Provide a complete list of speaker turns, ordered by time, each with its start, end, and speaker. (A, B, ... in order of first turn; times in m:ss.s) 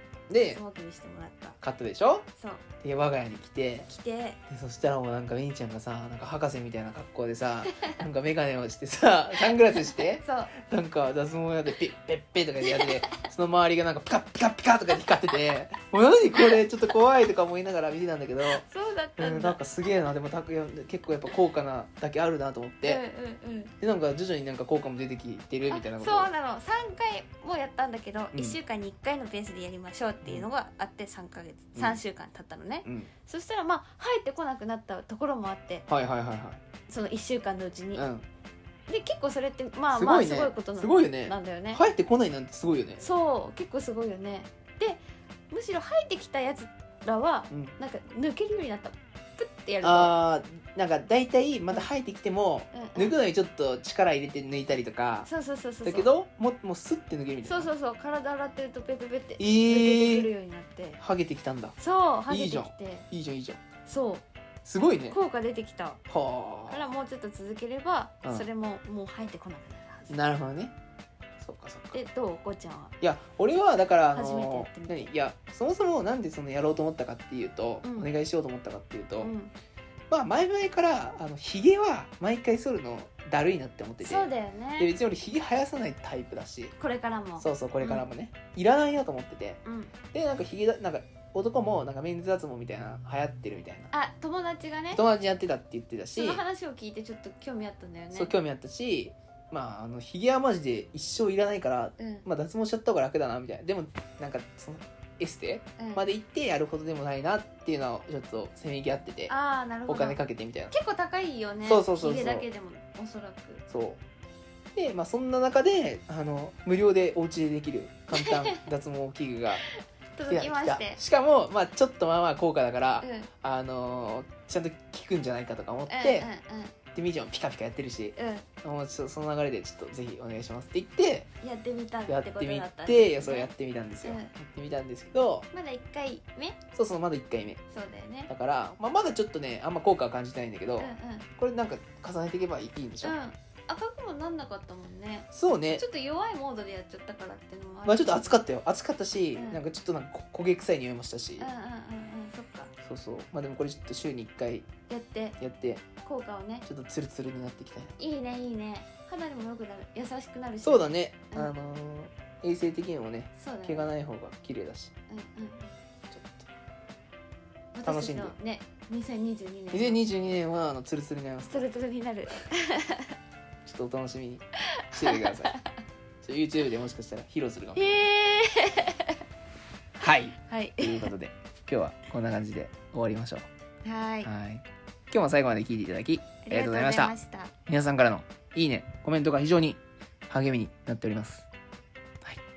0:00.3-0:00.6 A
0:00.5-0:01.6 B
0:01.6-0:02.2 A
0:02.4-0:02.6 B
0:02.8-0:03.9 A
0:03.9-0:04.4 B
0:04.5-0:18.6 A
0:09.5-0:10.5 B
0:12.6-0:13.0 B
0:16.3-0:16.6 B
0:18.5-0:19.6 B
0:19.2-0:23.0 A
0:22.8-0:23.7 B
0:23.8-0:26.3 A
0:25.7-0:35.9 B
0:28.3-0:28.6 A
0:31.8-0:32.0 A
0:32.8-0:33.1 A
0:35.9-0:36.6 A
0:36.9-0:38.1 B
0:37.9-0:38.2 A
0:38.9-0:41.8 B
0:39.9-0:43.0 A
0:43.0-0:50.2 B
0:49.8-0:55.3 A
0:52.7-0:53.2 B
0:55.2-0:56.1 B
0:55.8-0:57.7 A
0:57.4-1:01.0 B
0:59.4-1:00.3 A
1:01.0-1:01.8 A
1:01.8-1:03.1 B
1:02.3-1:03.6 A
1:03.9-1:04.2 B
1:04.6-1:05.2 A
1:05.1-1:06.0 B
1:06.1-1:06.9 A
1:06.7-1:10.2 B
1:10.1-1:10.7 A
1:11.4-1:12.0 A
1:11.9-1:12.9 B
1:13.0-1:19.3 A
1:14.1-1:15.1 B
1:17.8-1:18.1 B
1:19.2-1:19.5 B
1:20.1-1:26.7 A
1:24.0-1:24.9 B
1:26.8-1:28.1 B
1:27.4-1:29.6 A
1:29.6-1:29.9 B
1:30.1-1:33.9 A
1:33.9-1:35.0 B
1:34.9-1:36.4 A
1:36.1-1:38.3 B
1:38.1-1:49.3 A
1:42.0-1:42.2 B
1:45.8-1:46.0 B
1:49.3-1:50.2 B
1:49.9-1:50.7 A
1:50.7-1:53.6 B
1:51.6-1:52.4 A
1:53.7-1:54.0 A
1:54.8-1:59.7 A
1:58.1-1:58.6 B
1:59.7-2:01.0 B
2:00.3-2:06.3 A
2:03.0-2:03.3 B
2:05.9-2:06.8 B
2:06.9-2:11.3 A
2:08.2-2:08.5 B
2:11.4-2:13.5 B
2:12.1-2:15.5 A
2:14.0-2:14.3 B
2:15.5-2:16.6 B
2:16.7-2:17.6 A
2:17.7-2:18.3 B
2:18.3-2:23.2 A
2:20.8-2:21.3 B
2:23.0-2:28.4 B
2:25.3-2:25.8 A
2:27.9-2:31.5 A
2:29.4-2:29.6 B
2:31.4-2:32.7 B
2:32.8-2:34.7 A
2:34.9-2:35.4 B
2:35.4-2:35.8 A
2:36.0-2:36.6 B
2:36.6-2:37.9 A
2:38.0-2:41.5 B
2:40.6-2:44.9 A
2:43.4-2:43.9 B
2:45.1-2:45.7 B
2:46.1-2:46.5 A
2:47.7-2:50.0 B
2:47.8-2:48.4 A
2:49.7-2:51.7 A
2:51.5-2:53.2 B
2:53.6-2:55.5 A
2:54.8-2:55.6 B
2:56.2-2:58.0 A
2:57.8-2:59.2 B
3:00.0-3:03.5 A
3:00.4-3:01.1 B
3:03.8-3:04.3 B
3:04.2-3:07.1 A
3:06.5-3:07.5 B
3:07.7-3:11.5 A